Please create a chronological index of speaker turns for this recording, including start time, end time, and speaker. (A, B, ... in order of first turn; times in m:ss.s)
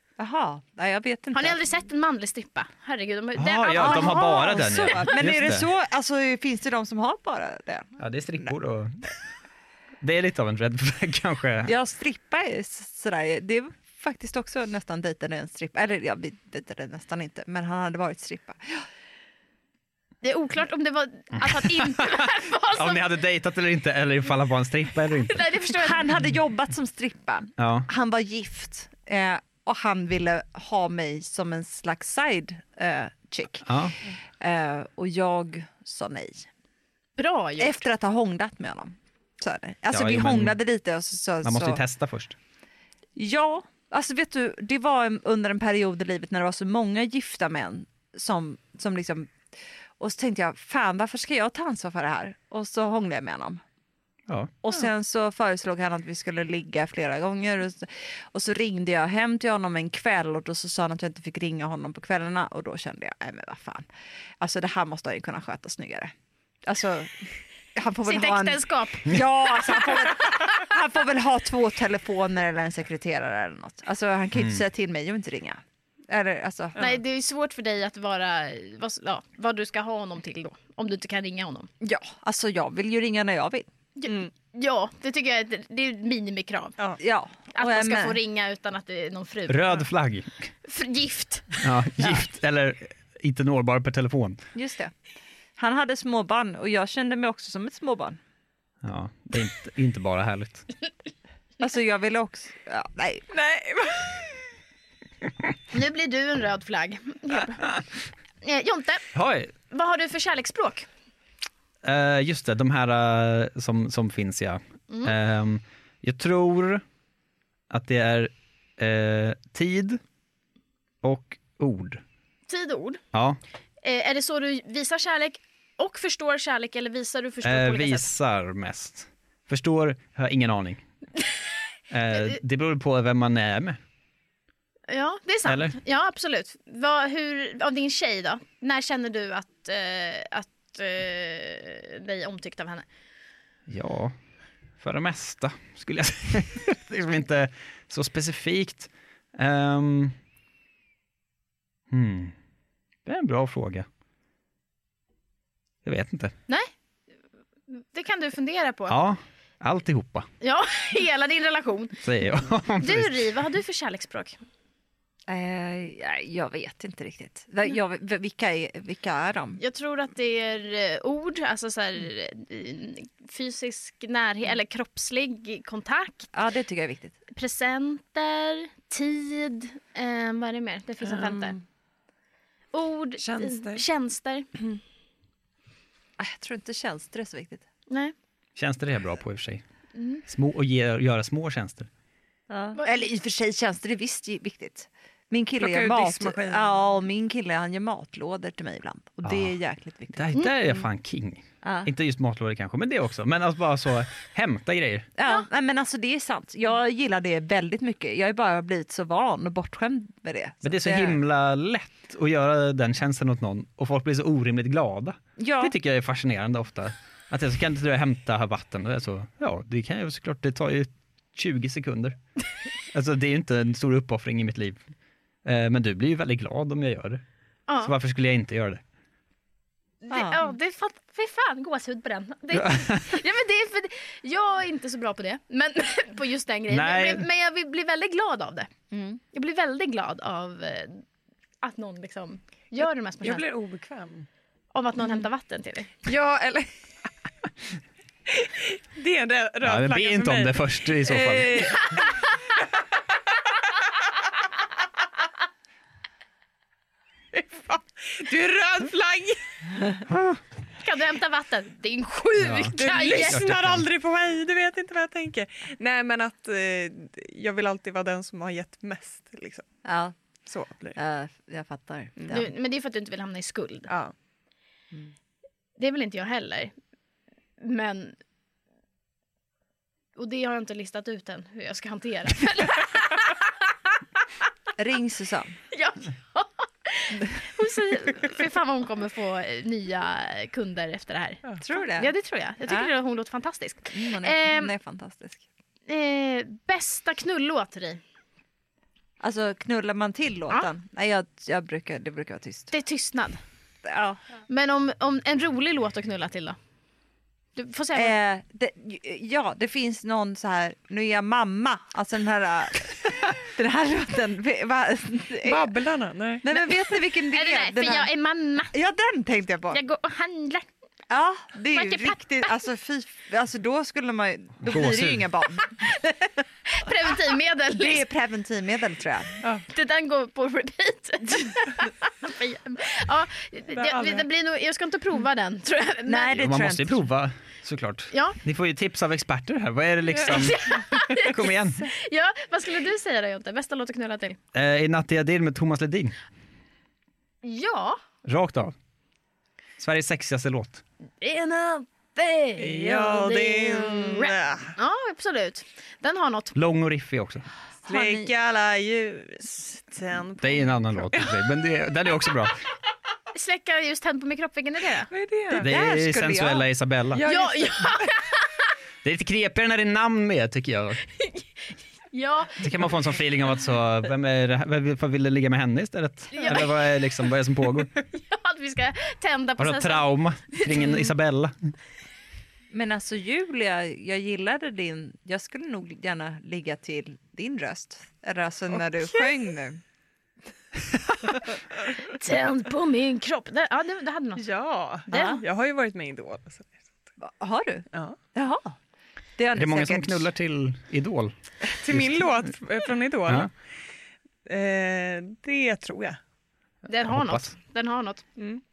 0:00.2-0:01.6 A
0:01.3-0:05.0 B
0:03.4-0:05.7 C
0:03.7-0:08.5 A
0:08.0-0:09.1 C
0:10.0-0:11.7 C
0:11.6-0:18.8 A
0:20.2-0:23.1 B
0:21.3-0:25.6 C
0:25.2-0:26.0 B
0:25.8-0:33.7 A
0:27.6-0:27.9 C
0:33.6-0:33.9 C
0:34.4-0:36.5 A
0:37.2-0:37.8 B
0:37.6-0:41.8 A
0:39.9-0:40.6 C
0:41.4-0:42.4 C
0:43.2-0:49.3 A
0:50.0-0:53.6 A
0:54.6-1:03.9 A
1:04.4-1:16.8 A
1:08.0-1:10.1 B
1:14.4-1:14.6 C
1:16.8-1:21.7 B
1:21.8-1:23.7 A
1:24.0-1:26.8 B
1:27.0-1:28.2 A
1:27.5-1:29.8 B
1:29.5-1:30.5 C
1:30.6-1:31.6 B
1:31.6-1:34.4 C
1:34.5-1:34.9 A
1:35.6-1:38.2 A
1:38.8-1:40.7 C
1:41.6-1:43.3 A
1:43.3-1:44.2 D
1:45.7-1:47.7 B
1:48.4-1:49.0 B
1:49.1-1:49.5 C
1:49.7-1:50.9 B
1:51.8-1:56.8 C
1:57.7-2:00.0 C
2:01.0-2:02.0 C
2:02.5-2:03.0 B
2:03.1-2:03.4 C
2:03.8-2:08.1 B
2:07.4-2:10.8 C
2:11.9-2:13.8 C
2:14.9-2:22.8 B
2:15.4-2:15.8 C
2:23.7-2:24.1 C
2:24.8-2:30.1 C
2:31.9-2:32.3 C
2:33.0-2:33.8 C
2:35.8-2:36.3 C
2:37.7-2:39.0 B
2:38.9-2:40.3 C
2:40.4-2:42.0 B
2:42.0-2:43.2 C
2:42.8-2:44.4 B
2:45.3-2:49.6 A
2:49.6-2:56.3 B
2:56.3-2:57.2 A
2:57.3-3:01.6 B
3:01.0-3:01.6 D
3:02.7-3:04.5 B
3:03.2-3:03.8 D
3:06.2-3:07.6 A
3:08.6-3:09.6 C
3:09.9-3:10.2 B
3:10.2-3:11.9 C
3:12.5-3:20.3 A
3:15.6-3:16.8 D
3:19.2-3:19.5 C
3:20.1-3:25.1 C
3:21.6-3:21.9 A
3:25.2-3:31.2 A
3:30.6-3:42.2 C
3:35.4-3:35.7 A
3:42.9-3:44.8 C
3:45.4-3:47.2 C
3:47.7-3:47.9 B
3:47.8-3:48.8 C
3:50.0-3:58.7 B
3:50.1-3:50.5 A
3:52.5-3:53.2 C
3:56.7-3:57.3 C
3:58.9-3:59.2 A
3:59.3-4:01.0 B
4:01.6-4:03.4 B
4:03.2-4:04.2 D
4:04.7-4:06.0 B
4:06.0-4:06.7 D
4:08.3-4:12.2 D
4:09.6-4:11.9 C
4:17.3-4:19.4 D
4:20.1-4:20.4 C
4:20.8-4:23.5 B
4:22.4-4:23.8 C
4:22.8-4:29.6 D
4:29.8-4:30.1 A
4:30.4-4:31.0 D
4:30.9-4:32.5 A
4:32.2-4:32.4 D
4:32.3-4:33.9 B
4:35.8-4:36.7 B
4:37.6-4:38.2 B
4:40.2-4:43.5 B
4:44.8-4:45.6 A
4:45.7-4:54.7 B
4:51.6-4:52.1 A
4:53.9-4:55.4 A
4:55.9-4:58.0 B
4:59.2-5:02.7 A
5:02.7-5:03.4 B
5:03.8-5:04.2 A
5:04.5-5:06.6 B
5:07.6-5:08.2 B
5:07.9-5:15.7 A
5:15.4-5:16.4 D
5:16.4-5:18.1 A
5:17.3-5:18.7 B
5:18.7-5:19.8 A
5:19.7-5:20.7 B
5:21.1-5:26.0 A
5:21.7-5:22.2 B
5:24.6-5:25.3 C
5:26.7-5:28.0 B
5:27.7-5:29.4 A
5:29.7-5:36.4 B
5:33.7-5:34.2 D
5:36.0-5:37.0 A
5:36.3-5:41.9 C
5:38.1-5:38.4 B
5:40.2-5:40.5 D
5:40.2-5:44.4 B
5:44.5-5:46.1 C
5:47.4-5:48.0 B
5:48.2-5:48.7 C
5:49.8-5:50.8 C
5:51.2-5:56.6 B
5:52.6-5:54.7 D
5:52.7-5:53.0 C
5:56.5-5:57.5 C
5:57.8-6:01.4 D
5:57.8-5:58.3 A
6:00.4-6:02.6 C
6:03.3-6:05.1 B
6:05.1-6:05.7 D
6:05.5-6:07.2 C
6:05.6-6:06.7 A
6:07.1-6:08.1 D
6:07.2-6:08.4 B
6:09.0-6:11.0 C
6:11.2-6:11.4 B
6:12.1-6:12.6 B
6:12.6-6:17.9 C
6:16.3-6:16.7 B
6:18.1-6:21.1 B
6:19.6-6:21.7 C
6:22.7-6:29.8 A
6:32.0-6:34.4 B
6:34.4-6:36.9 D
6:35.1-6:35.4 B
6:35.1-6:35.4 A
6:37.2-6:38.8 A
6:39.4-6:40.3 A
6:39.5-6:41.3 C
6:41.6-6:43.5 D
6:41.9-6:42.3 C
6:44.4-6:46.2 D
6:46.8-6:48.2 B
6:47.1-6:47.5 C
6:48.4-6:48.6 D